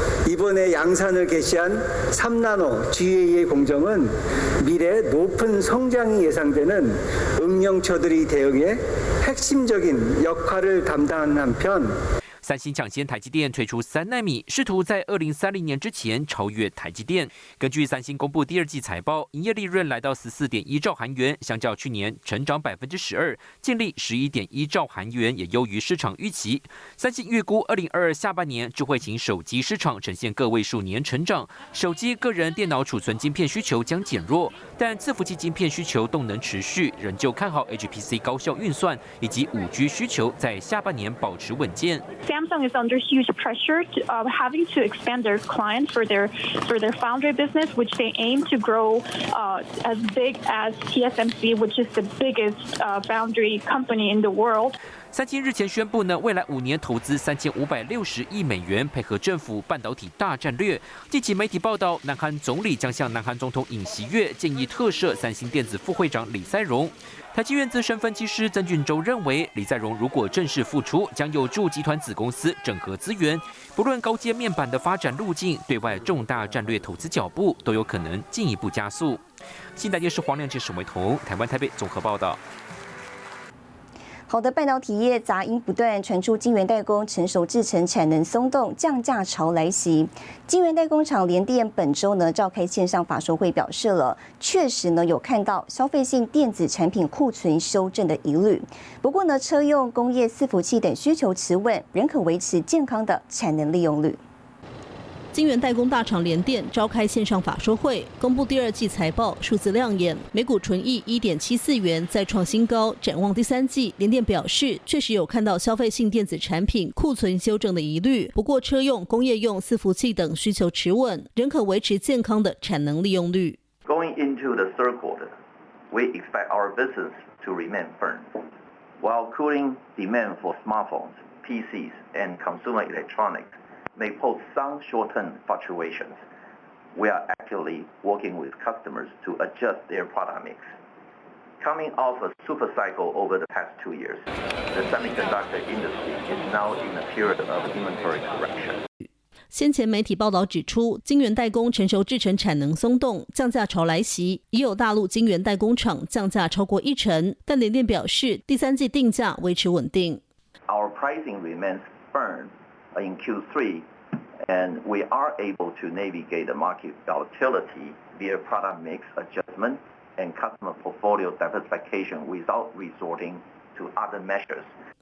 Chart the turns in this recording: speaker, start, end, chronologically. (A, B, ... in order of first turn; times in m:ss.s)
0:00.3-0:12.0 A
0:12.4-0:42.0 B
0:42.2-0:54.8 C
0:55.1-1:19.2 B
1:19.8-1:22.4 B
1:24.3-1:44.2 D
1:45.3-2:03.6 E
2:03.9-2:05.4 F
2:05.9-2:08.4 F
2:09.0-2:16.2 F
2:17.0-2:20.7 F
2:21.6-2:28.8 F
2:29.5-2:40.2 E
2:40.7-2:54.7 F